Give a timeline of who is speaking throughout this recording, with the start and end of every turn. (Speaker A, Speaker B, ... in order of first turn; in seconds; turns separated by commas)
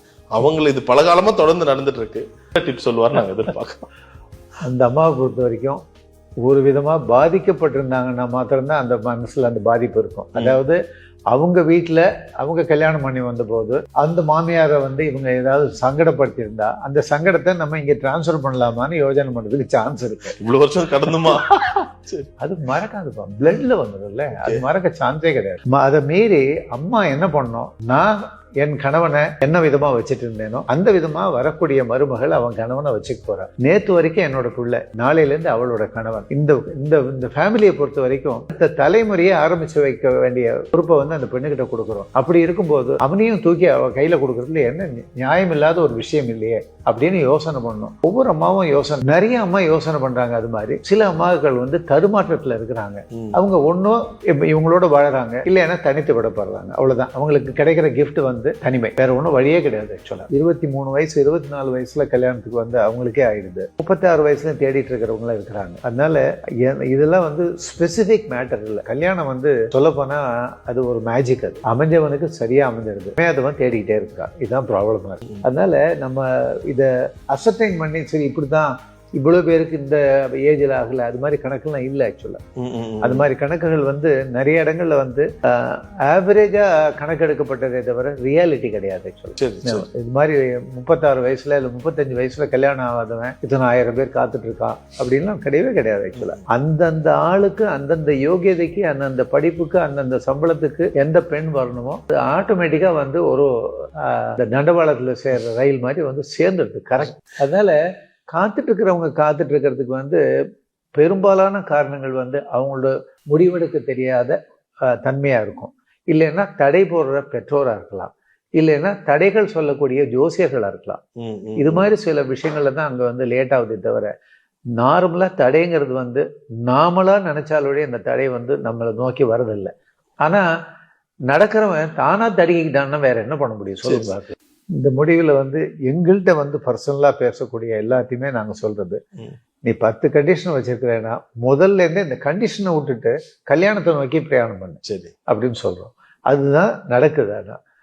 Speaker A: 0.3-3.8, Speaker B: 4.6-5.8, Speaker B: 6.4-10.8, Speaker B: 11.3-20.4, Speaker A: 20.4-22.3, Speaker B: 22.4-82.4, Speaker A: 82.6-83.2, Speaker B: 83.0-107.8, Speaker A: 89.4-89.8, Speaker A: 96.2-96.4, Speaker B: 108.3-110.2, Speaker B: 111.0-114.4, Speaker B: 114.9-121.0, Speaker A: 121.2-121.9, Speaker B: 121.6-124.1, Speaker B: 124.7-129.7, Speaker B: 131.3-139.0, Speaker B: 139.6-147.6, Speaker A: 144.8-145.1